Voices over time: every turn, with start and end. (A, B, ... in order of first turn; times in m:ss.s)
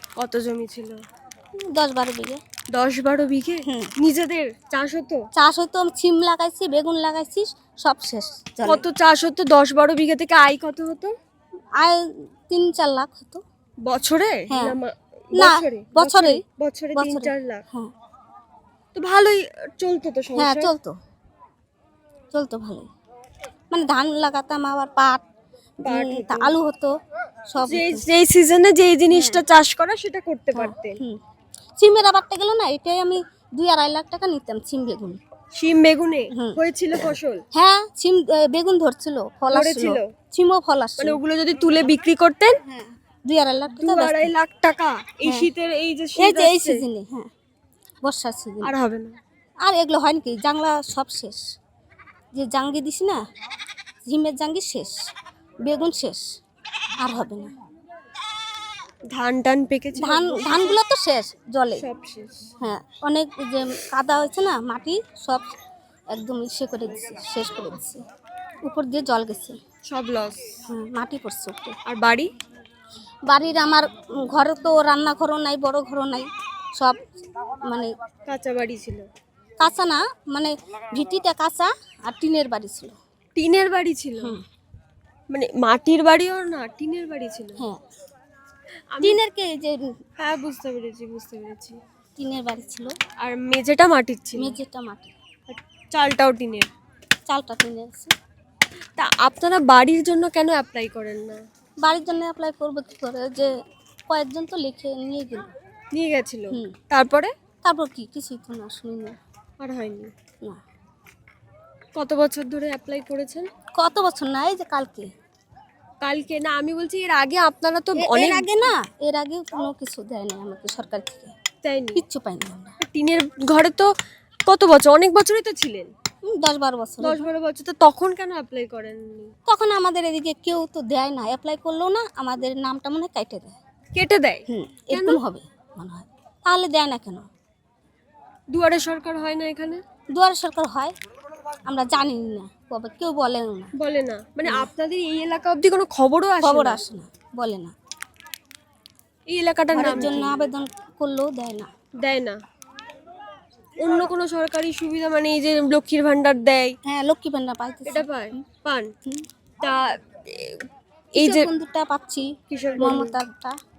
0:00.2-0:01.0 A
0:01.6-0:02.4 B
0:02.7-0:05.2 A
0:03.6-0:03.9 B
0:05.4-0:08.8 B
0:08.6-0:11.1 A
0:11.8-0:13.4 B
0:13.8-0:17.6 A
0:14.5-0:14.8 B
0:15.3-0:16.4 B
0:17.0-0:17.9 B
0:18.9-0:20.7 A
0:20.4-0:20.9 B
0:22.3-0:22.9 B
0:23.7-0:25.2 B
0:25.8-0:26.9 B
0:25.8-0:26.6 A
0:27.5-0:28.0 B
0:27.6-0:31.0 A
0:29.1-0:29.4 B
0:30.5-0:31.2 B
0:31.8-0:35.2 B
0:35.6-0:37.4 A
0:36.3-0:36.6 B
0:37.5-0:41.2 B
0:39.5-0:40.1 A
0:41.0-0:42.5 A
0:42.6-0:44.3 B
0:43.7-0:46.8 A
0:45.2-0:45.5 B
0:46.2-0:47.3 B
0:48.0-0:48.7 B
0:48.6-0:49.2 A
0:49.6-0:51.4 B
0:52.3-0:53.2 B
0:54.0-0:55.0 B
0:55.6-0:56.2 B
0:57.0-0:57.5 B
0:59.1-1:00.8 A
1:00.0-1:01.8 B
1:01.8-1:02.5 A
1:02.6-1:05.5 B
1:06.1-1:08.0 B
1:08.6-1:09.6 B
1:09.9-1:10.5 A
1:10.7-1:11.8 B
1:11.9-1:12.3 A
1:13.2-1:17.9 B
1:18.3-1:19.1 A
1:19.6-1:23.0 B
1:23.4-1:24.4 A
1:25.3-1:27.6 A
1:28.9-1:29.2 A
1:29.0-1:30.0 B
1:30.2-1:31.8 A
1:32.2-1:32.9 B
1:33.2-1:34.6 A
1:34.4-1:35.1 B
1:35.5-1:36.7 A
1:37.3-1:38.1 B
1:39.0-1:41.4 A
1:41.8-1:43.5 B
1:44.1-1:45.5 B
1:45.9-1:47.3 A
1:47.6-1:49.2 B
1:49.6-1:50.1 A
1:52.0-1:53.5 A
1:53.8-1:55.1 B
1:56.0-1:58.7 A
1:58.0-2:01.3 B
2:01.6-2:02.0 A
2:01.9-2:02.8 B
2:02.9-2:03.9 A
2:04.4-2:05.9 A
2:06.2-2:07.3 B
2:07.0-2:09.3 A
2:09.5-2:13.6 B
2:13.9-2:15.2 A
2:14.5-2:17.2 B
2:18.5-2:19.8 A
2:20.1-2:20.9 B
2:21.7-2:23.7 B
2:23.8-2:26.8 A
2:24.4-2:24.7 B
2:26.4-2:27.7 B
2:29.3-2:30.3 A
2:29.7-2:31.7 B
2:32.0-2:32.4 A
2:33.8-2:36.8 A
2:36.8-2:38.4 B
2:37.8-2:38.9 A
2:39.6-2:41.5 A
2:41.2-2:43.6 B
2:42.5-2:43.1 A